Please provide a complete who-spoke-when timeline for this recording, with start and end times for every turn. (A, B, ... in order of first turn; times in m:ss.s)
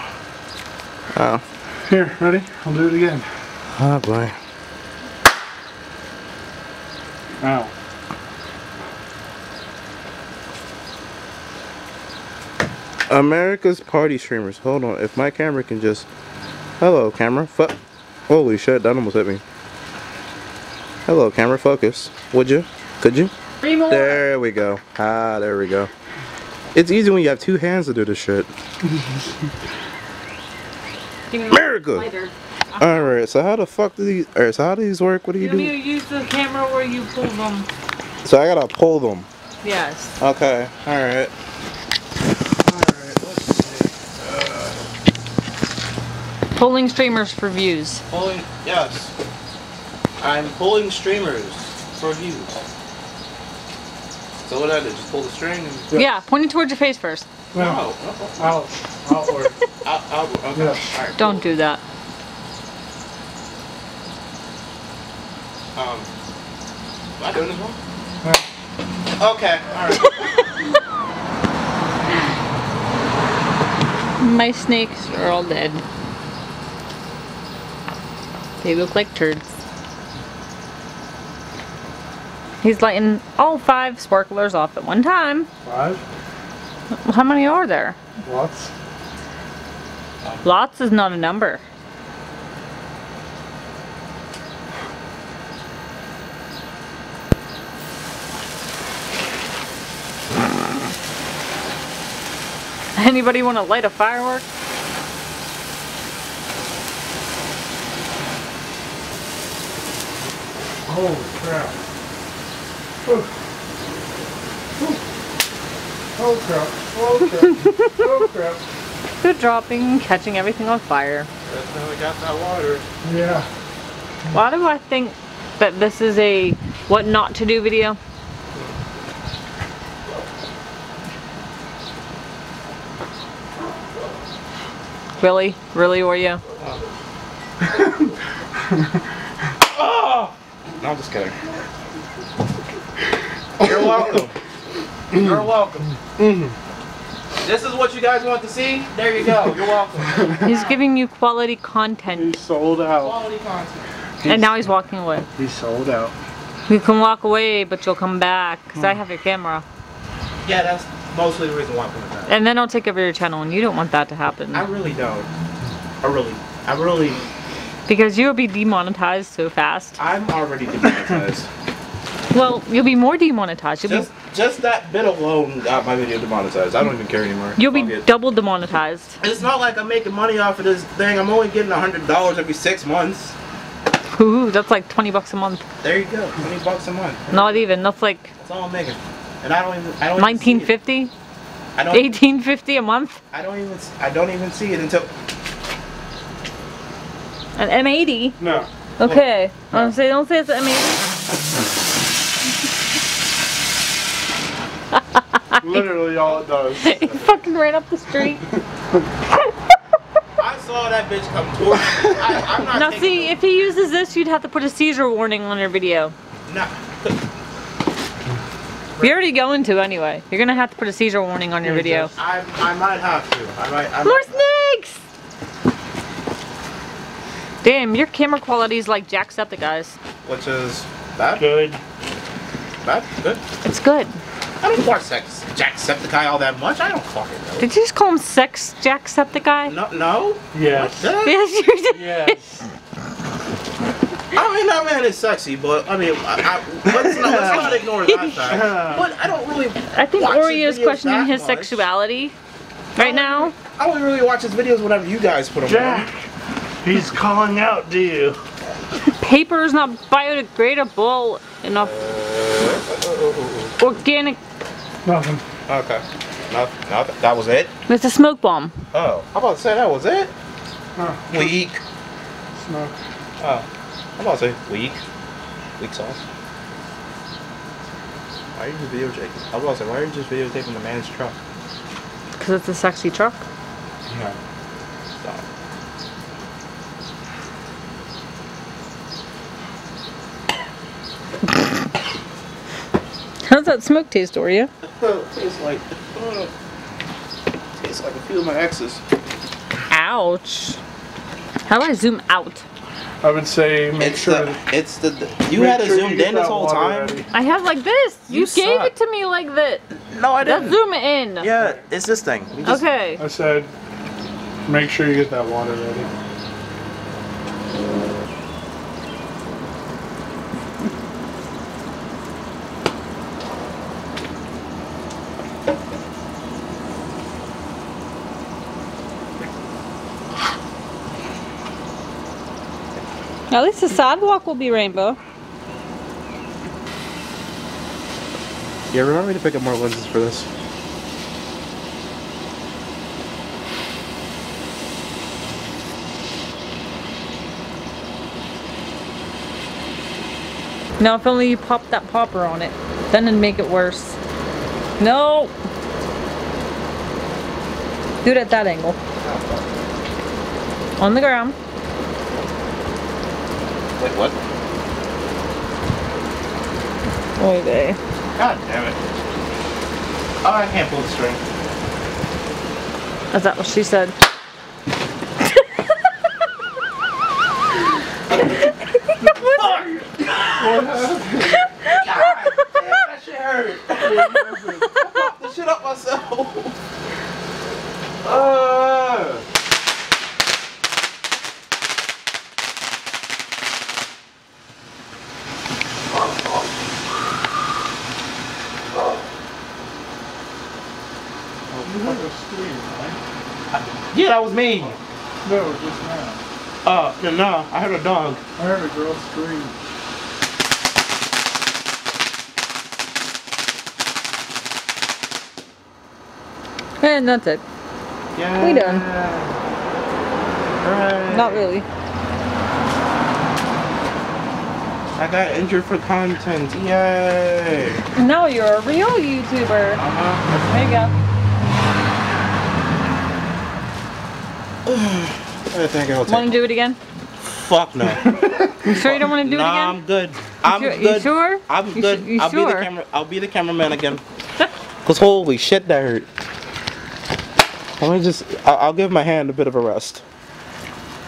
0:01.1-0:01.4 A
0:01.9-0:03.3 B
0:03.8-0:04.4 A
0:07.4-0:07.7 B
0:13.1-0:16.1 A
0:16.8-0:17.8 A
0:18.3-0:19.4 A
0:21.1-0:23.3 A
0:23.6-0:24.2 C
0:23.9-0:25.9 A
0:26.8-0:28.5 A
0:31.3-0:33.1 C
0:31.5-0:32.1 A
0:32.8-0:35.7 A
0:35.4-0:37.7 C
0:38.2-0:39.3 A
0:39.6-0:40.1 C
0:40.2-0:41.3 A
0:42.6-0:44.8 A
0:46.6-0:48.0 C
0:48.1-0:49.1 A
0:50.2-0:52.6 A
0:54.4-0:55.9 A
0:55.9-0:56.2 B
0:55.9-0:57.3 C
0:57.5-0:57.8 B
0:57.5-0:58.6 A
0:58.4-0:59.6 B
0:59.8-1:01.4 A
1:00.6-1:00.9 B
1:01.2-1:01.8 C
1:05.8-1:06.1 A
1:07.2-1:07.8 A
1:09.2-1:10.4 A
1:14.2-1:15.8 C
1:18.6-1:19.4 C
1:22.6-1:25.5 C
1:25.6-1:26.0 B
1:27.0-1:28.0 C
1:28.2-1:28.7 B
1:30.4-1:31.6 C
1:42.9-1:44.4 C
1:50.9-1:51.8 B
1:53.0-1:53.3 B
1:56.2-1:58.6 B
1:57.6-1:58.0 C
1:59.2-2:01.3 C
2:01.5-2:02.8 A
2:03.0-2:03.5 B
2:04.3-2:08.0 C
2:15.2-2:16.4 C
2:19.7-2:21.4 A
2:23.6-2:24.4 A
2:25.1-2:25.9 A
2:26.2-2:26.6 B
2:27.4-2:30.8 A
2:30.2-2:30.4 B
2:30.4-2:32.4 C
2:32.1-2:33.2 B
2:33.0-2:33.9 A
2:34.2-2:34.5 B
2:34.2-2:35.3 C
2:35.4-2:36.1 B
2:36.7-2:39.6 C
2:40.4-2:42.4 A
2:42.3-2:44.6 C
2:44.5-2:45.3 A
2:46.0-2:47.2 A
2:47.9-2:50.0 C
2:50.0-2:51.5 A
2:52.3-2:54.1 C
2:53.8-2:58.0 A
2:57.6-2:59.2 C
2:59.2-3:03.4 A
3:04.1-3:05.6 C
3:05.8-3:07.6 A
3:07.3-3:08.3 C
3:08.4-3:10.7 A
3:10.2-3:11.1 C
3:11.8-3:12.1 A
3:11.9-3:13.2 C
3:13.3-3:15.1 A
3:17.6-3:18.4 C
3:18.4-3:18.7 B
3:19.0-3:21.1 C
3:19.0-3:19.9 A
3:25.5-3:26.1 C
3:25.6-3:27.0 B
3:26.8-3:28.5 C
3:26.8-3:27.4 A
3:30.4-3:33.4 A
3:32.7-3:36.1 C
3:36.4-3:37.2 A
3:39.0-3:42.1 C
3:41.6-3:42.1 B
3:42.1-3:44.4 A
3:44.0-3:45.0 C
3:47.6-3:50.0 C
3:50.2-3:51.5 A
3:51.4-3:51.8 B
3:52.8-3:53.4 A
3:53.6-3:54.2 C
3:54.6-3:57.7 A
3:57.6-3:59.8 C
3:59.6-4:01.4 A
4:00.5-4:01.1 B
4:01.2-4:02.4 C
4:01.9-4:02.6 B
4:04.3-4:11.9 A
4:06.9-4:07.8 B
4:07.5-4:08.5 C
4:08.4-4:09.1 B
4:09.9-4:12.4 C
4:13.0-4:13.5 C
4:13.0-4:16.1 A
4:15.6-4:16.3 B
4:16.8-4:18.4 B
4:19.2-4:22.0 C
4:21.8-4:23.8 A
4:23.8-4:24.4 C
4:25.0-4:25.4 B
4:25.7-4:27.7 A
4:27.9-4:28.8 C
4:28.9-4:30.3 A
4:31.0-4:31.6 B
4:31.3-4:31.8 A
4:32.5-4:33.0 B
4:33.4-4:33.6 A
4:34.2-4:35.0 A
4:35.8-4:36.2 A
4:38.6-4:41.4 A
4:42.4-4:43.4 C
4:44.1-4:44.4 B
4:53.4-4:54.7 C
4:54.8-4:56.5 A
4:57.8-4:59.0 A
4:59.9-5:00.8 C
5:01.6-5:02.6 C
5:03.2-5:04.6 B
5:04.0-5:07.1 A
5:05.5-5:07.3 B
5:07.3-5:09.8 C
5:08.3-5:08.9 A
5:10.1-5:10.8 A
5:10.4-5:11.5 C
5:11.4-5:12.8 A
5:11.6-5:11.8 B
5:12.6-5:13.2 C
5:13.2-5:13.7 B
5:14.6-5:16.1 B
5:33.5-5:35.2 C
5:38.9-5:40.5 A
5:51.0-5:54.2 C
5:55.0-5:55.5 C
5:58.2-5:59.0 C
5:59.2-5:59.7 A
6:01.0-6:01.6 C
6:04.0-6:04.4 A
6:07.4-6:08.0 C
6:08.4-6:09.0 A
6:10.4-6:11.4 A
6:13.3-6:14.1 C
6:19.2-6:19.8 B
6:19.4-6:21.2 A
6:20.6-6:21.6 B
6:21.8-6:26.8 A
6:24.0-6:24.9 B
6:25.0-6:25.2 C
6:28.2-6:29.4 A
6:41.7-6:43.2 B
6:41.8-6:42.2 A
6:43.7-6:45.0 A
6:45.4-6:46.4 B
6:46.8-6:48.4 A
6:48.6-6:49.8 B
6:57.0-6:57.6 C
6:58.4-6:59.5 A
6:58.6-6:59.0 C
7:00.8-7:01.7 A
7:01.3-7:01.9 C
7:05.2-7:08.0 A
7:08.2-7:11.1 C
7:10.0-7:10.7 A
7:14.9-7:16.6 A
7:16.3-7:17.0 C
7:17.5-7:24.2 A
7:18.2-7:19.0 B
7:18.8-7:20.0 C
7:20.6-7:22.9 C
7:25.0-7:26.3 A
7:28.0-7:30.2 A